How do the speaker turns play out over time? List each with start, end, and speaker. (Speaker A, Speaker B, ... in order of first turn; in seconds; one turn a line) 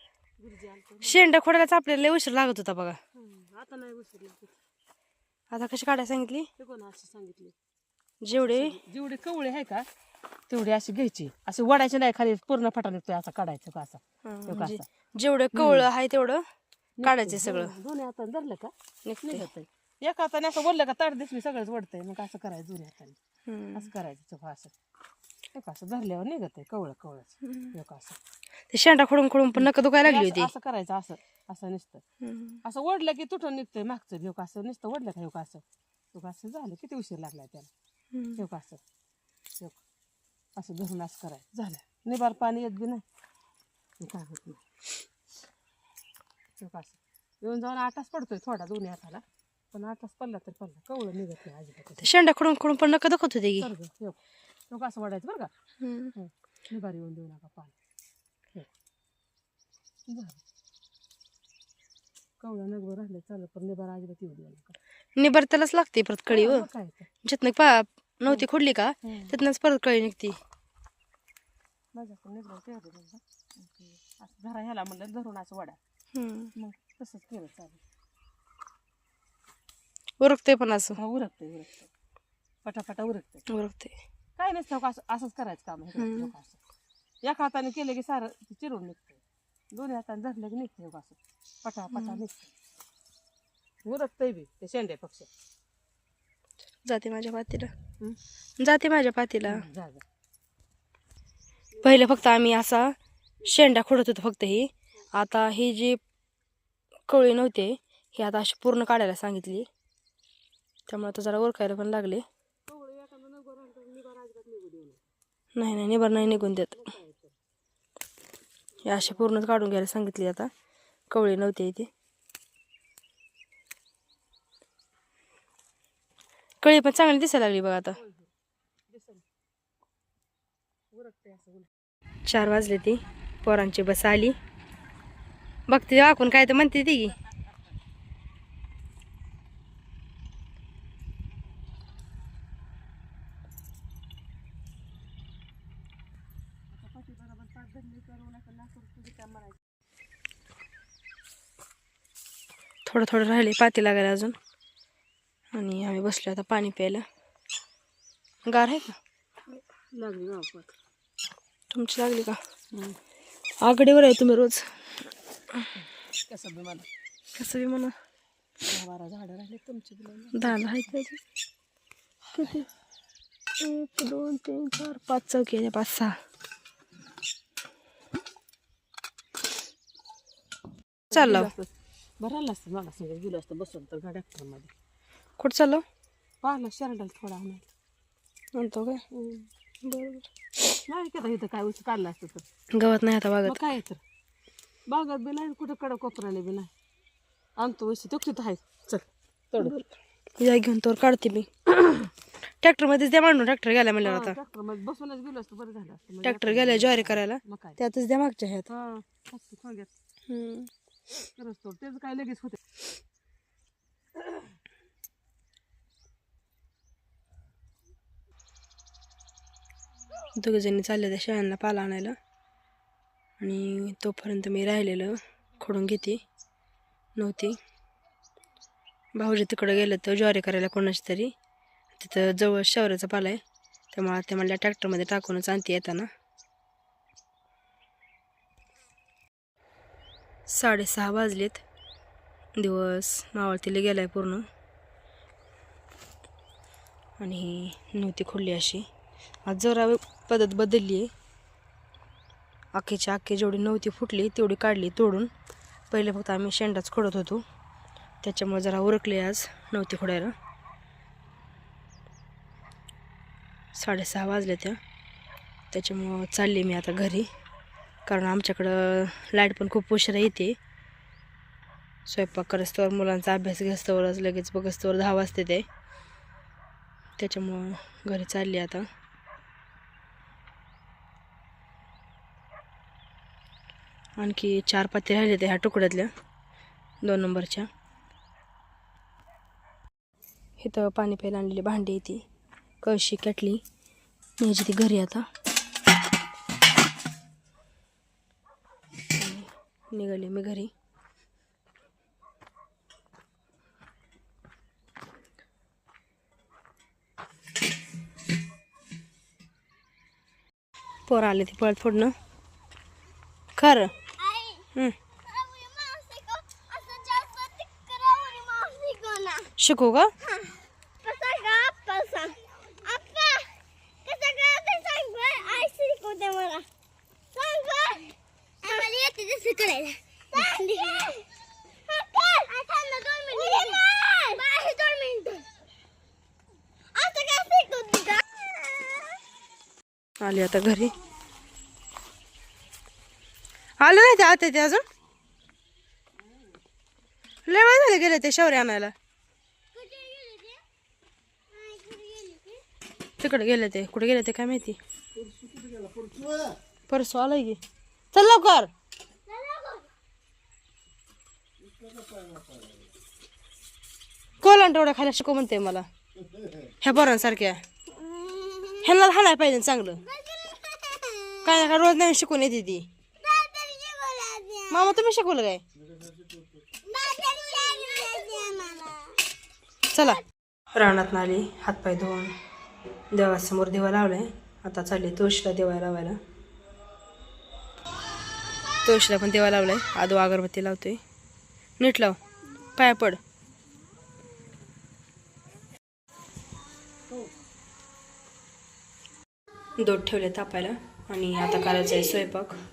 Speaker A: 0.4-1.3
Speaker B: 1.0-3.0
Speaker A: 3.1-4.5
Speaker B: 5.5-6.5
Speaker A: 6.6-7.5
Speaker B: 8.2-8.8
Speaker A: 8.4-9.9
Speaker A: 10.5-14.8
Speaker B: 14.2-16.4
Speaker A: 15.5-15.9
Speaker A: 17.0-23.2
Speaker B: 17.0-17.7
Speaker B: 19.1-19.4
Speaker B: 23.5-23.9
Speaker A: 23.8-24.7
Speaker A: 25.5-28.2
Speaker B: 28.7-30.5
Speaker A: 29.6-32.0
Speaker B: 32.2-32.6
Speaker A: 32.6-35.6
Speaker A: 36.1-37.7
Speaker B: 38.1-38.4
Speaker A: 38.4-38.8
Speaker A: 39.5-39.8
Speaker A: 40.6-43.0
Speaker A: 44.0-44.6
Speaker A: 46.6-52.1
Speaker B: 52.0-53.7
Speaker A: 53.6-54.2
Speaker A: 54.7-55.5
Speaker B: 55.8-56.1
Speaker A: 56.2-57.7
Speaker A: 60.1-60.4
Speaker A: 62.4-64.8
Speaker B: 65.2-66.7
Speaker A: 66.3-67.1
Speaker B: 67.2-70.4
Speaker A: 69.0-69.3
Speaker A: 71.9-75.8
Speaker B: 76.1-76.5
Speaker A: 76.6-77.8
Speaker B: 80.2-81.0
Speaker A: 81.0-81.9
Speaker A: 82.7-83.4
Speaker B: 83.5-84.0
Speaker A: 84.4-86.6
Speaker B: 86.0-86.3
Speaker A: 87.2-89.2
Speaker A: 89.7-92.5
Speaker B: 91.9-92.2
Speaker A: 93.8-95.3
Speaker B: 96.9-97.7
Speaker B: 98.6-99.6
Speaker A: 99.4-100.0
Speaker A: 101.7-102.2
Speaker B: 101.8-106.0
Speaker B: 107.1-109.7
Speaker B: 110.9-112.2
Speaker A: 112.7-115.0
Speaker B: 115.6-116.8
Speaker A: 115.9-117.3
Speaker A: 118.8-119.4
Speaker B: 118.8-120.5
Speaker B: 121.1-121.9
Speaker B: 126.6-128.0
Speaker A: 128.0-128.3
Speaker A: 128.9-129.2
Speaker A: 130.9-131.7
Speaker B: 132.3-134.3
Speaker B: 135.7-137.2
Speaker A: 146.7-149.6
Speaker B: 152.9-154.4
Speaker B: 155.5-157.0
Speaker B: 158.5-159.0
Speaker A: 159.9-160.7
Speaker B: 161.7-162.4
Speaker A: 162.7-163.0
Speaker B: 163.6-164.6
Speaker A: 166.3-166.9
Speaker B: 167.4-167.9
Speaker A: 168.6-170.9
Speaker B: 170.3-171.2
Speaker B: 172.3-172.7
Speaker B: 173.6-176.1
Speaker A: 181.1-184.7
Speaker B: 181.1-181.5
Speaker B: 185.4-185.8
Speaker A: 186.4-187.7
Speaker B: 188.6-189.0
Speaker A: 189.1-189.5
Speaker B: 189.8-190.2
Speaker A: 190.9-192.4
Speaker B: 192.7-193.6
Speaker A: 193.4-194.0
Speaker A: 194.9-196.7
Speaker A: 197.6-199.8
Speaker B: 199.6-199.9
Speaker B: 200.4-201.6
Speaker B: 202.6-204.4
Speaker A: 204.0-207.8
Speaker B: 206.2-208.7
Speaker A: 208.7-209.9
Speaker B: 210.3-210.7
Speaker A: 211.4-212.6
Speaker B: 220.4-222.2
Speaker B: 223.4-226.2
Speaker B: 227.2-227.6
Speaker B: 229.2-231.3
Speaker B: 232.0-233.4
Speaker B: 233.9-236.1
Speaker B: 240.5-241.6
Speaker B: 242.6-244.4
Speaker B: 247.2-248.8
Speaker B: 249.5-251.1
Speaker B: 252.7-255.3
Speaker B: 255.9-257.4
Speaker B: 258.2-260.3
Speaker B: 263.8-264.8
Speaker B: 265.7-267.3
Speaker B: 268.1-270.6
Speaker B: 272.1-275.6
Speaker B: 277.2-278.9
Speaker B: 284.2-286.1
Speaker B: 287.0-287.7
Speaker B: 290.6-292.2
Speaker B: 292.8-293.6
Speaker B: 294.4-295.2
Speaker B: 299.2-300.7
Speaker B: 311.1-312.1
Speaker B: 313.6-313.9
Speaker C: 314.2-319.5
Speaker B: 319.6-320.1
Speaker C: 320.2-326.7
Speaker C: 327.3-331.3
Speaker C: 331.9-335.5
Speaker C: 336.9-339.2
Speaker B: 340.2-340.9
Speaker B: 343.8-344.8
Speaker B: 347.5-348.9
Speaker C: 349.7-350.6
Speaker C: 351.5-352.6
Speaker B: 353.2-354.8
Speaker B: 356.9-357.6
Speaker B: 358.1-358.7
Speaker C: 359.3-359.9
Speaker B: 364.4-365.9
Speaker B: 366.8-367.6
Speaker C: 367.9-368.9
Speaker B: 368.8-370.0
Speaker C: 370.0-371.7
Speaker B: 371.4-372.9
Speaker C: 373.2-375.0
Speaker B: 374.7-375.6
Speaker C: 376.8-379.2
Speaker B: 379.9-380.2
Speaker B: 380.8-382.3
Speaker B: 383.1-386.2
Speaker B: 388.8-391.0
Speaker B: 391.8-392.2
Speaker B: 392.8-393.2
Speaker B: 399.8-402.6